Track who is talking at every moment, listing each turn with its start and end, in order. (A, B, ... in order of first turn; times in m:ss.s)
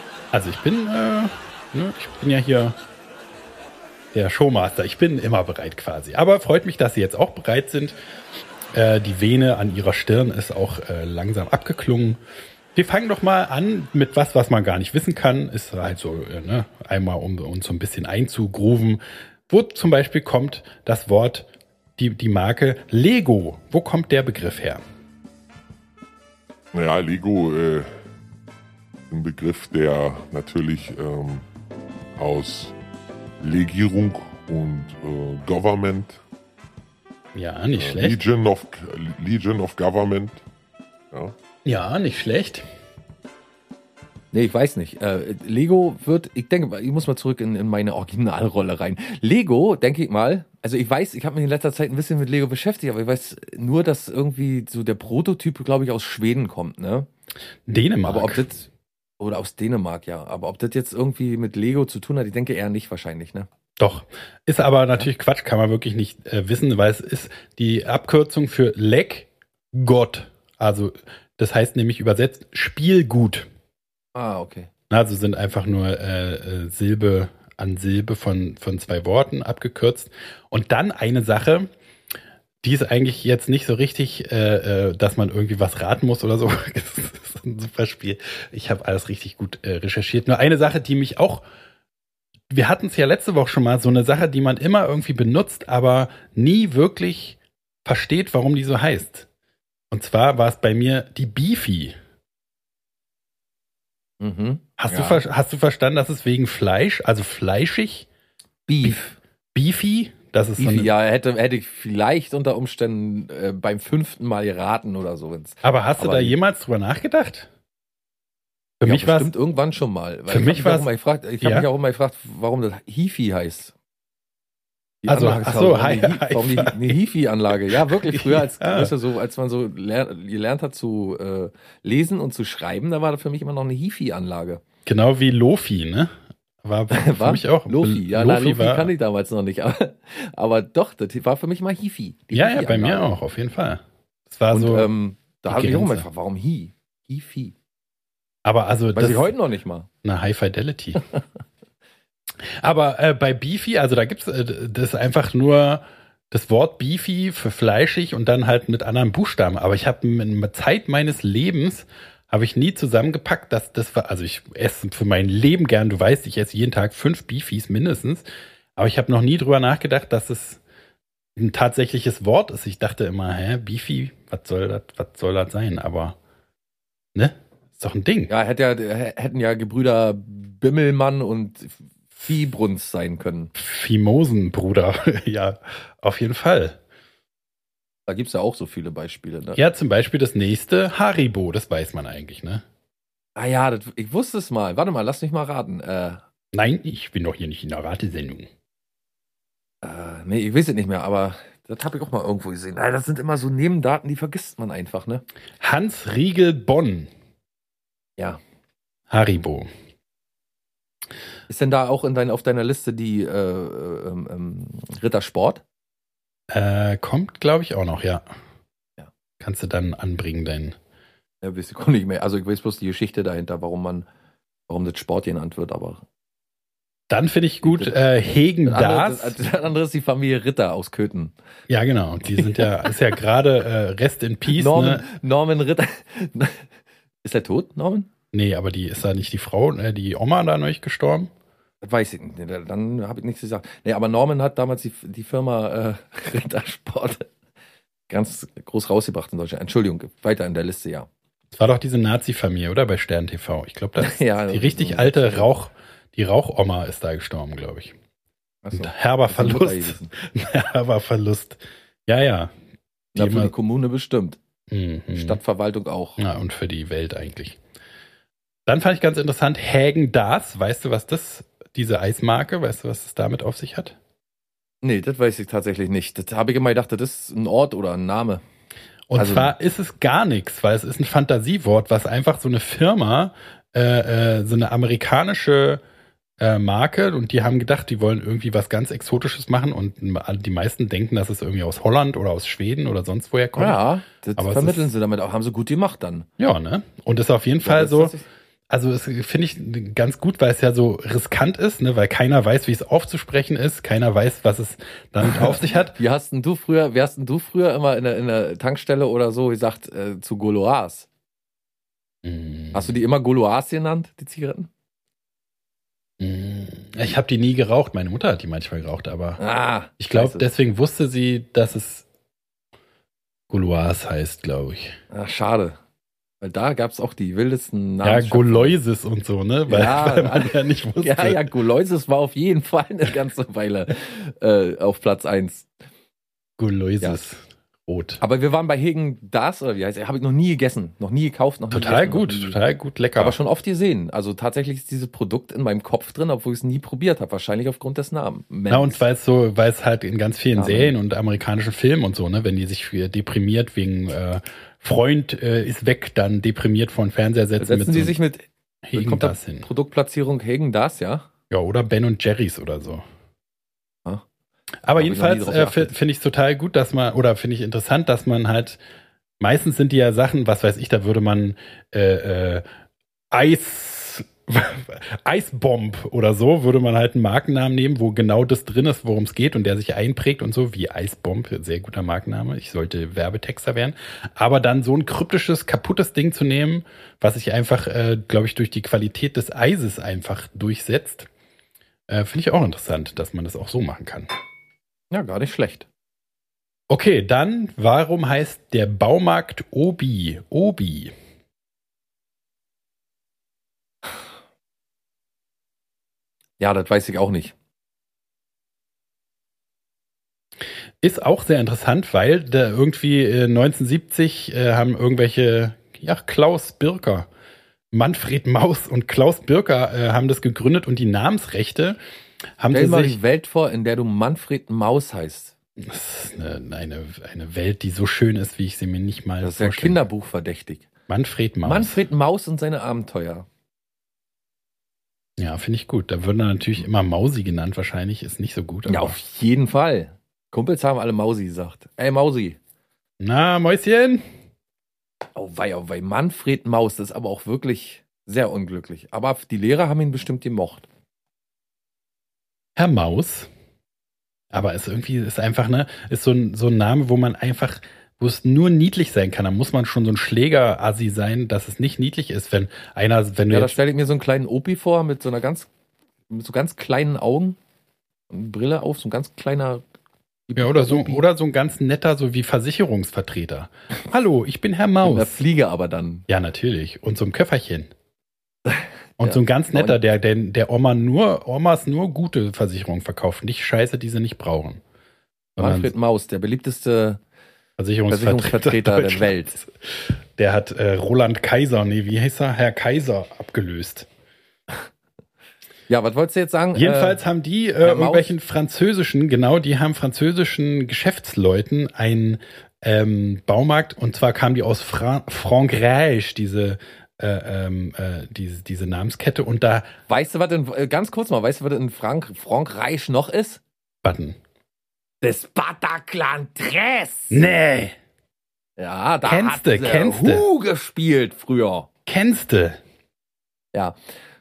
0:00.3-0:02.8 A
0:04.1-0:08.0 A
0:08.7-0:12.2 A
0:12.8-0:24.8 A
0:26.7-0:27.9 B
0:29.1-0:31.4 B
0:32.2-0:32.7 B
0:33.4-0:36.2 B
0:37.3-0:38.2 A
0:37.8-0:40.4 B
0:41.6-0:42.6 A
0:44.3-0:57.1 C
0:57.6-0:58.4 A
0:58.0-0:58.7 C
0:59.2-1:03.5 C
1:03.8-1:13.5 A
1:14.1-1:14.7 C
1:14.9-1:21.7 A
1:22.6-1:31.4 A
1:32.5-1:39.3 A
1:39.9-1:42.0 A
1:44.2-1:45.2 C
1:44.8-1:48.1 A
1:48.7-1:49.2 C
1:49.5-1:50.9 A
1:50.6-1:56.4 C
1:55.6-1:57.5 A
1:58.8-1:59.3 A
1:58.8-2:03.7 C
2:00.3-2:00.9 A
2:01.4-2:01.7 A
2:05.0-2:14.6 C
2:05.1-2:07.0 A
2:07.7-2:08.9 A
2:14.9-2:18.9 A
2:16.9-2:23.1 C
2:22.3-2:24.9 A
2:24.5-2:27.5 C
2:25.4-2:26.0 A
2:28.4-2:29.3 A
2:29.0-2:29.9 C
2:30.0-2:31.0 A
2:32.4-2:48.2 A
2:48.8-2:50.6 A
2:51.4-2:56.2 A
2:57.1-2:58.3 A
2:58.3-3:03.5 C
3:03.6-3:06.8 A
3:08.1-3:09.6 C
3:09.5-3:12.6 A
3:13.4-3:16.2 C
3:16.5-3:18.5 A
3:19.8-3:25.2 C
3:25.6-3:27.1 A
3:29.1-3:29.7 A
3:31.5-3:35.6 C
3:36.5-3:38.2 A
3:39.4-3:40.8 A
3:41.4-3:44.0 C
3:44.7-3:46.0 C
3:47.1-3:49.4 A
3:47.6-3:48.0 C
3:48.6-3:51.3 C
3:51.7-3:55.0 A
3:52.4-3:53.0 C
3:54.5-3:56.7 C
3:57.2-3:58.1 C
3:58.3-4:01.3 A
4:01.8-4:07.3 C
4:08.1-4:11.1 C
4:11.5-4:17.9 A
4:14.0-4:15.5 C
4:18.6-4:20.1 C
4:18.8-4:22.5 A
4:23.1-4:23.5 A
4:23.1-4:24.4 C
4:24.7-4:25.4 A
4:25.1-4:26.2 C
4:26.2-4:27.6 A
4:28.7-4:34.0 A
4:34.8-4:38.4 C
4:39.1-4:45.8 A
4:39.2-4:39.5 C
4:46.4-4:53.8 A
4:53.6-4:56.3 C
4:54.4-4:54.9 A
4:56.4-4:58.1 A
4:57.6-4:58.2 C
4:58.7-5:06.0 A
5:05.2-5:11.1 C
5:12.2-5:12.9 A
5:12.7-5:14.7 C
5:16.2-5:19.4 A
5:19.4-5:20.5 C
5:20.0-5:22.0 A
5:23.5-5:25.0 A
5:25.1-5:25.8 C
5:26.4-5:28.8 C
5:28.0-5:31.4 A
5:29.7-5:35.7 C
5:36.6-5:38.2 A
5:38.2-5:42.6 C
5:41.7-5:43.4 A
5:43.2-5:49.0 C
5:48.7-5:58.2 A
5:50.5-5:51.0 C
5:57.6-6:01.2 C
5:58.8-5:59.7 A
6:01.5-6:03.0 A
6:04.9-6:08.8 A
6:05.0-6:05.9 C
6:09.4-6:12.6 A
6:13.3-6:31.3 A
6:32.1-6:34.3 A
6:35.1-6:35.9 C
6:36.9-6:41.1 A
6:46.6-6:47.5 C
6:51.0-6:57.3 A
6:57.9-7:02.0 A
7:02.6-7:03.2 A
7:02.7-7:05.6 C
7:05.8-7:10.0 A
7:09.4-7:10.9 C
7:11.1-7:12.0 A
7:11.6-7:13.4 C
7:15.4-7:19.2 A
7:18.9-7:22.6 C
7:23.2-7:24.2 A
7:25.4-7:30.9 C
7:32.8-7:33.5 A
7:34.5-7:43.8 A
7:43.5-7:45.7 C
7:46.3-7:47.6 C
7:48.3-7:49.8 C
7:50.5-7:51.2 C
7:50.6-7:55.4 A
7:55.0-7:56.3 C
7:56.3-7:57.9 A
7:58.6-8:00.0 C
7:59.2-8:04.8 A
8:05.6-8:05.9 A
8:05.6-8:07.2 C
8:07.8-8:14.1 A
8:08.1-8:09.6 C
8:15.9-8:17.2 C
8:16.7-8:29.9 A
8:17.8-8:18.3 C
8:30.1-8:33.6 C
8:34.0-8:34.4 A
8:35.2-8:37.5 C
8:37.3-8:37.9 A
8:38.8-8:41.9 C
8:39.2-8:40.4 A
8:42.1-8:42.8 A